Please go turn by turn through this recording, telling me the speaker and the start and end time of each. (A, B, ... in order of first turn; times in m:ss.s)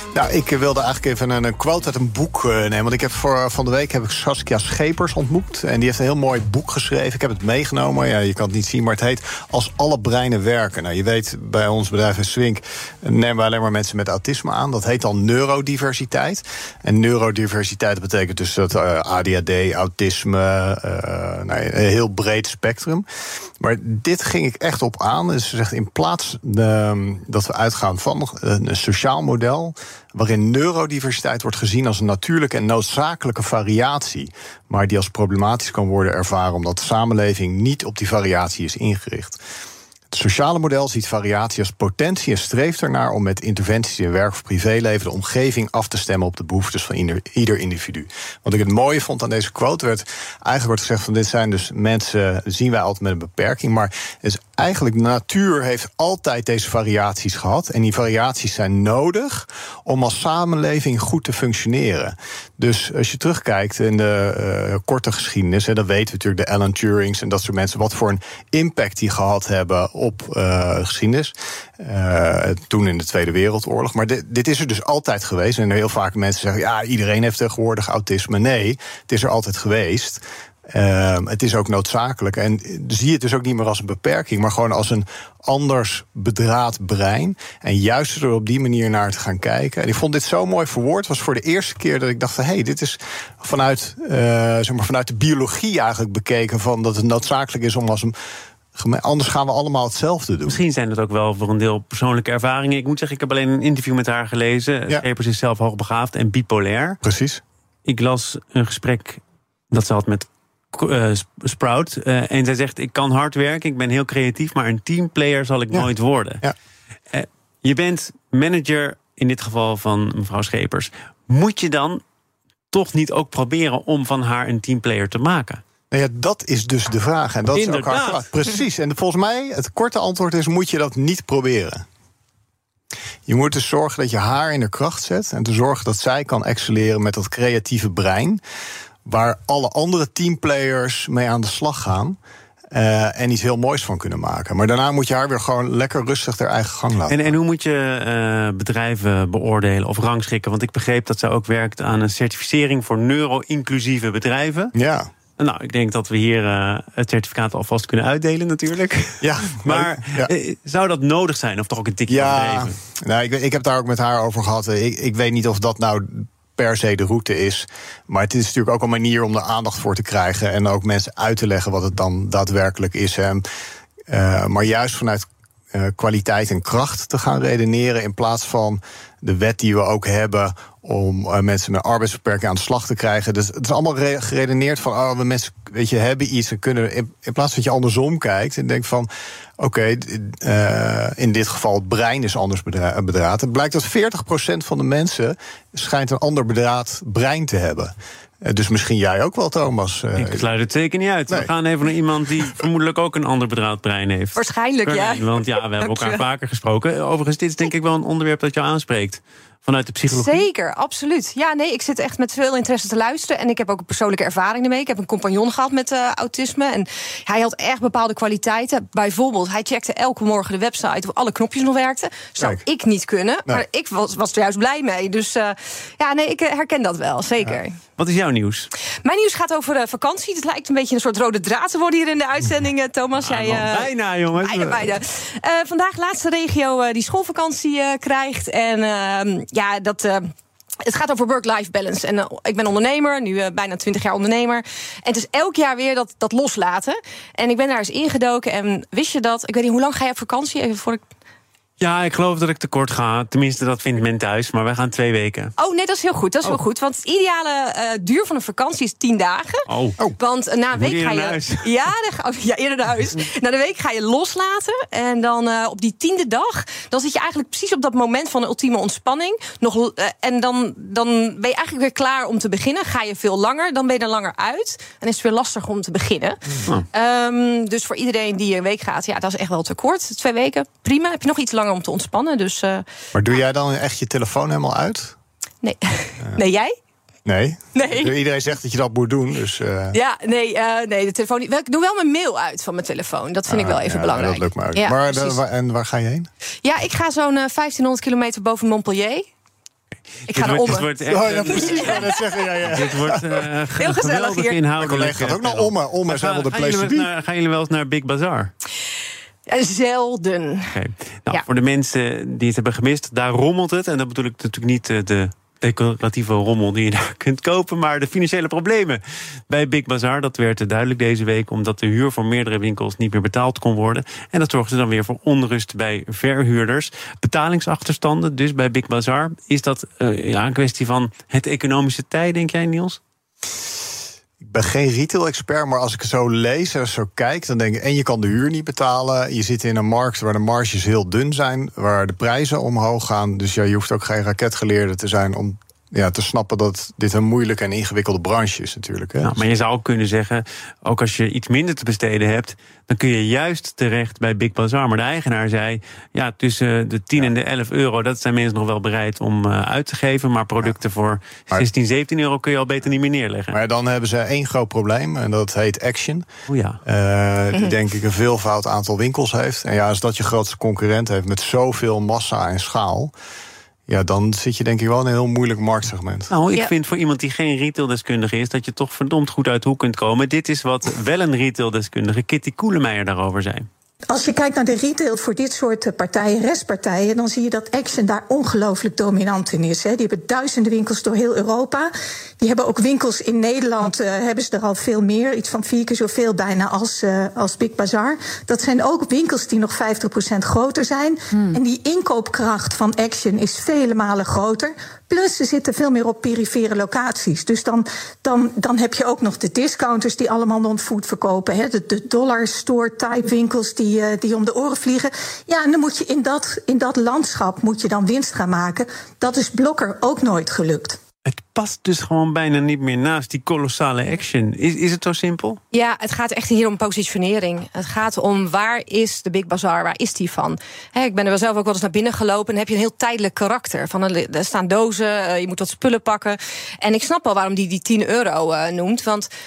0:00.1-0:23.0 A
0:23.6-0:39.4 A
0:40.1-1:38.1 A
1:38.8-1:40.6 A
1:40.5-1:47.0 B
1:47.0-1:47.4 A
1:47.8-1:56.4 B
1:57.1-2:02.0 B
2:02.7-2:05.6 B
2:05.9-2:11.8 A
2:07.5-2:08.3 B
2:13.3-2:18.4 A
2:19.0-2:22.2 A
2:22.7-2:27.3 A
2:27.1-2:34.7 B
2:34.8-2:35.1 A
2:35.4-2:42.8 B
2:39.2-2:40.3 A
2:42.1-2:53.4 A
2:54.1-3:20.4 A
3:20.2-3:30.4 B
3:24.4-3:26.2 C
3:30.1-3:47.8 C
3:48.0-3:48.7 B
3:49.0-4:11.0 C
3:53.2-3:55.0 B
4:11.8-4:15.5 B
4:15.6-4:19.6 C
4:19.7-4:20.0 B
4:20.2-4:42.8 C
4:20.7-4:21.7 B
4:43.1-4:45.2 A
4:45.6-4:46.8 C
4:47.2-4:50.0 A
4:47.7-4:48.1 C
4:49.9-4:55.4 C
4:53.5-4:56.3 A
4:56.6-4:59.3 C
5:00.2-5:08.5 B
5:00.3-5:02.2 C
5:01.1-5:03.2 A
5:03.8-5:04.6 C
5:04.8-5:07.1 A
5:09.5-5:10.7 C
5:10.7-5:33.0 B
5:34.4-5:49.4 A
5:49.2-6:03.6 B
6:03.5-6:06.3 A
6:06.5-6:06.8 B
6:06.8-6:13.1 A
6:13.9-6:16.3 A
6:16.3-6:23.7 B
6:24.1-6:31.9 D
6:32.4-7:01.0 D
7:01.2-7:05.6 B
7:05.7-7:19.3 C